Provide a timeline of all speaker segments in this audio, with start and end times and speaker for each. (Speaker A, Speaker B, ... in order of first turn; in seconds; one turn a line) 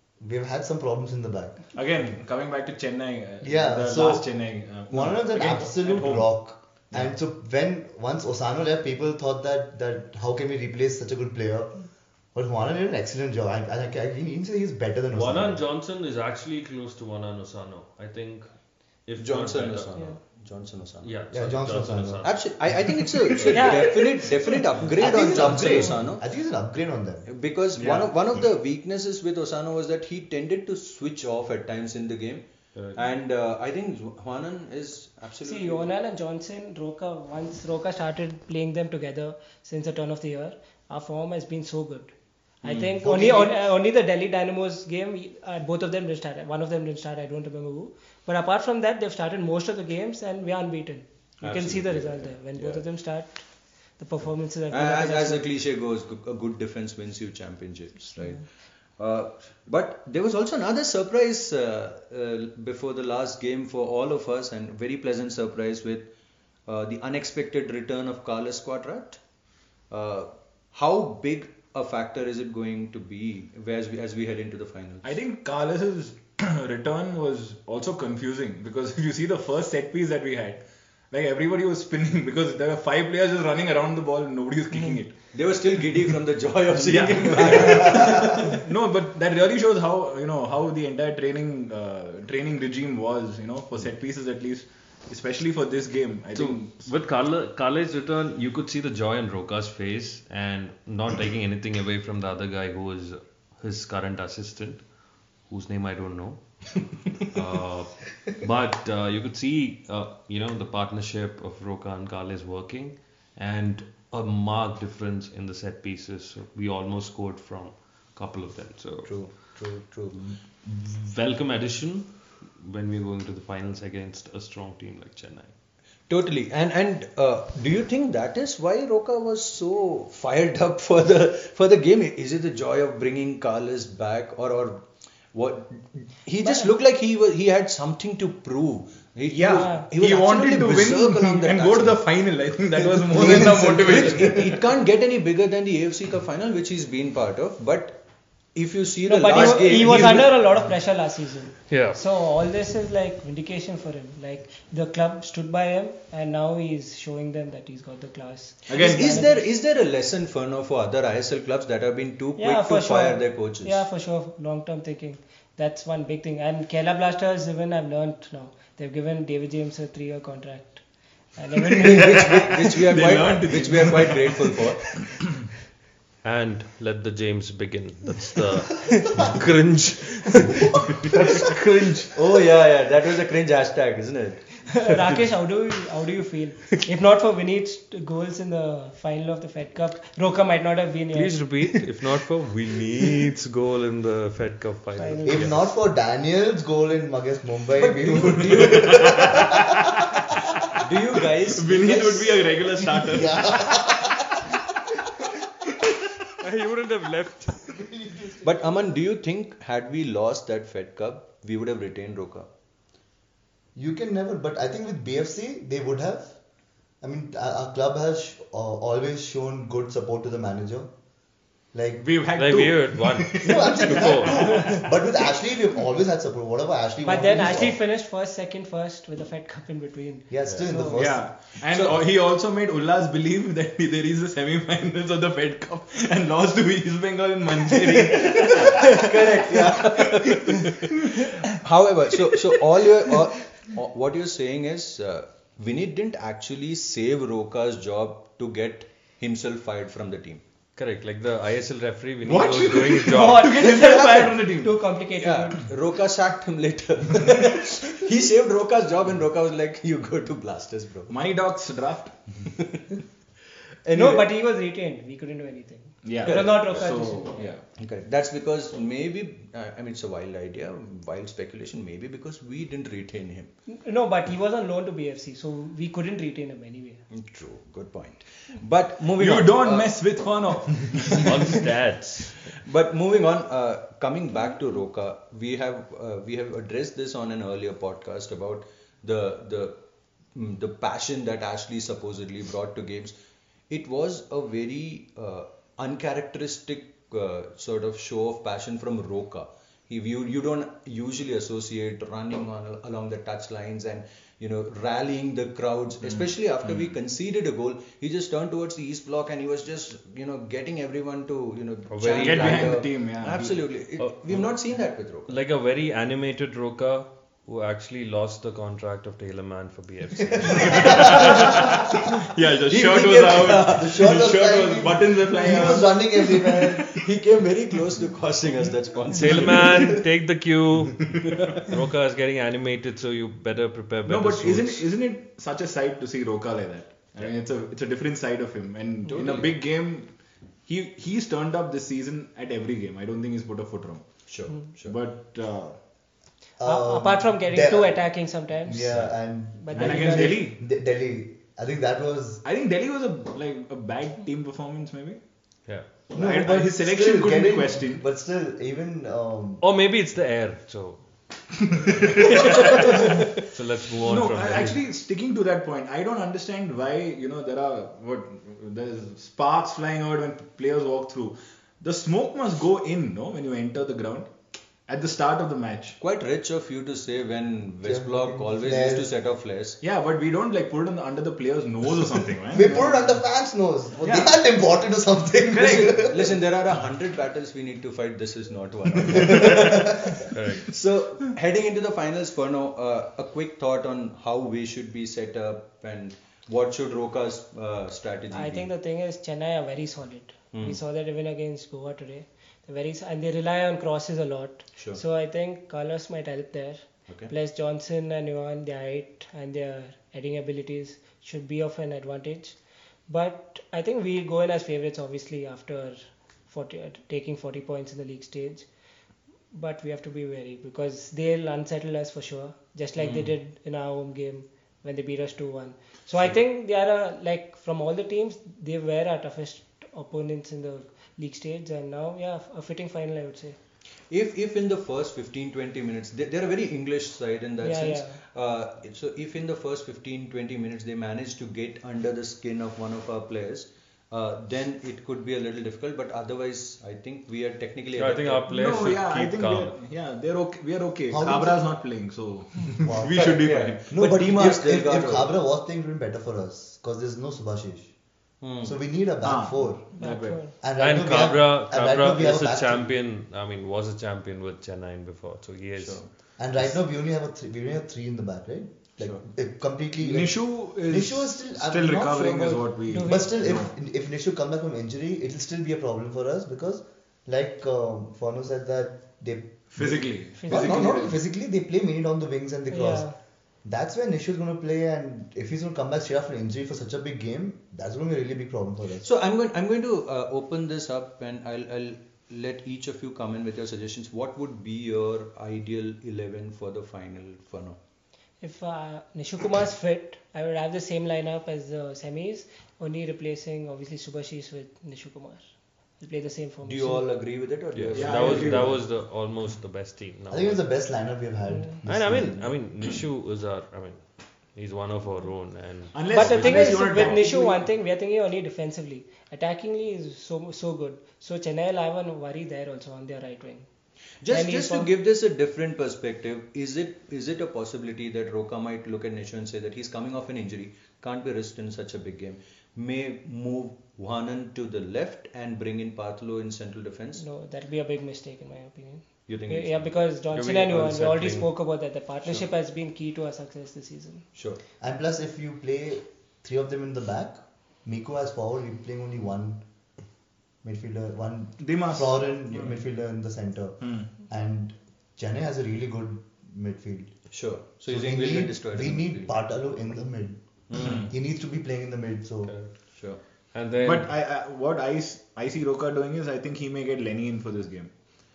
Speaker A: 0.2-1.6
Speaker B: 1.7-7.1
Speaker A: 3.4-11.8
Speaker A: 12.3-15.6
Speaker C: 15.1-20.2
Speaker D: 19.2-21.1
Speaker C: 21.0-23.8
Speaker A: 21.3-22.5
Speaker D: 22.2-26.2
Speaker E: 23.5-24.3
Speaker A: 25.0-27.3
Speaker D: 27.3-35.9
Speaker C: 27.8-28.1
Speaker C: 32.8-33.0
Speaker E: 35.5-55.5
Speaker A: 43.0-43.6
Speaker D: 51.4-52.8
Speaker D: 54.7-66.1
Speaker D: 66.7-69.2
Speaker D: 69.9-75.1
Speaker B: 75.0-85.3
Speaker D: 85.3-88.6
Speaker B: 86.8-96.9
Speaker C: 96.3-104.9
Speaker C: 105.5-106.6
Speaker C: 107.3-119.4
Speaker D: 119.0-120.4
Speaker C: 120.6-125.5
Speaker D: 126.1-142.1
Speaker E: 136.4-136.7
Speaker B: 139.3-144.6
Speaker E: 139.6-139.9
Speaker D: 142.8-148.0
Speaker A: 143.1-144.4
Speaker D: 148.6-150.3
Speaker E: 149.1-159.5
Speaker B: 149.3-150.3
Speaker C: 151.7-152.0
Speaker B: 158.7-159.3
Speaker D: 158.7-163.9
Speaker E: 162.4-172.5
Speaker D: 171.8-175.0
Speaker B: 172.3-175.2
Speaker C: 176.2-182.1
Speaker D: 182.1-184.7
Speaker E: 184.7-191.5
Speaker C: 191.1-195.7
Speaker E: 195.0-195.6
Speaker A: 195.2-199.5
Speaker D: 197.8-199.4
Speaker B: 198.2-199.6
Speaker D: 200.8-202.6
Speaker B: 201.5-204.1
Speaker A: 203.1-204.1
Speaker C: 206.4-207.8
Speaker A: 207.8-208.6
Speaker D: 208.4-212.5
Speaker A: 213.8-216.4
Speaker A: 217.0-220.9
Speaker A: 221.7-222.0
Speaker B: 222.0-224.8
Speaker C: 222.4-224.8
Speaker A: 223.4-227.8
Speaker E: 227.0-231.0
Speaker A: 230.3-231.3
Speaker B: 230.9-239.7
Speaker D: 231.7-232.0
Speaker D: 237.9-250.4
Speaker C: 250.8-253.7
Speaker B: 252.2-254.7
Speaker E: 253.5-255.7
Speaker D: 253.8-254.3
Speaker D: 255.2-261.1
Speaker B: 261.1-262.3
Speaker D: 263.9-264.3
Speaker E: 263.9-267.5
Speaker B: 266.0-267.6
Speaker D: 266.2-266.9
Speaker D: 267.8-273.5
Speaker E: 273.7-277.0
Speaker D: 277.1-280.0
Speaker B: 279.2-281.6
Speaker C: 281.2-282.4
Speaker D: 282.4-289.8
Speaker D: 290.3-293.1
Speaker D: 293.7-315.4
Speaker C: 311.9-312.8
Speaker B: 312.1-313.6
Speaker C: 314.0-314.5
Speaker C: 315.3-321.7
Speaker A: 320.6-321.1
Speaker B: 320.7-326.8
Speaker D: 322.7-324.1
Speaker A: 323.7-326.9
Speaker D: 326.9-330.0
Speaker C: 329.1-334.9
Speaker B: 334.1-340.1
Speaker D: 339.1-339.5
Speaker B: 340.7-344.2
Speaker D: 344.3-345.0
Speaker B: 344.9-345.8
Speaker A: 346.6-352.4
Speaker E: 346.6-350.4
Speaker B: 349.7-350.6
Speaker B: 352.4-355.2
Speaker C: 355.6-356.1
Speaker B: 356.1-358.0
Speaker A: 356.1-359.6
Speaker C: 359.6-361.1
Speaker C: 362.2-364.8
Speaker B: 364.0-374.4
Speaker B: 374.9-376.0
Speaker D: 376.0-379.8
Speaker A: 377.8-379.1
Speaker B: 379.8-383.2
Speaker A: 382.5-386.4
Speaker B: 384.0-384.4
Speaker B: 385.5-385.9
Speaker D: 385.5-398.7
Speaker A: 389.1-389.9
Speaker C: 390.3-390.7
Speaker E: 398.3-418.7
Speaker D: 400.5-400.8
Speaker D: 404.8-405.0
Speaker D: 407.1-407.3
Speaker E: 419.5-433.6
Speaker D: 423.0-423.3
Speaker D: 434.1-448.4
Speaker E: 437.6-438.2
Speaker C: 447.9-449.8
Speaker B: 448.5-453.9
Speaker A: 451.1-451.7
Speaker A: 452.8-457.9
Speaker D: 453.1-455.3
Speaker D: 458.4-458.8
Speaker A: 458.6-462.9
Speaker B: 459.2-460.6
Speaker E: 460.0-460.5
Speaker C: 460.8-466.4
Speaker D: 465.8-466.1
Speaker A: 466.4-483.1
Speaker B: 470.0-473.7
Speaker E: 472.9-473.3
Speaker B: 479.7-481.2
Speaker E: 480.4-480.9
Speaker E: 482.7-483.1
Speaker A: 483.6-489.1
Speaker D: 489.0-497.8
Speaker E: 498.4-505.4
Speaker E: 506.0-507.1
Speaker D: 506.6-508.8
Speaker C: 507.7-510.6
Speaker B: 507.9-508.8
Speaker A: 510.3-512.8
Speaker E: 511.5-511.8
Speaker C: 511.8-517.2
Speaker B: 515.9-517.6
Speaker E: 516.0-523.7
Speaker D: 524.2-537.2
Speaker E: 524.3-524.9
Speaker E: 537.2-544.2
Speaker D: 539.3-540.1
Speaker C: 540.3-541.5
Speaker D: 544.4-544.6
Speaker A: 544.8-549.6
Speaker A: 550.6-557.2
Speaker B: 551.6-552.7
Speaker B: 553.8-554.1
Speaker D: 557.3-559.4
Speaker A: 557.9-562.5
Speaker D: 560.7-561.1
Speaker B: 560.8-561.1
Speaker C: 562.5-562.7
Speaker D: 562.9-563.2
Speaker C: 563.5-564.1
Speaker B: 563.8-567.9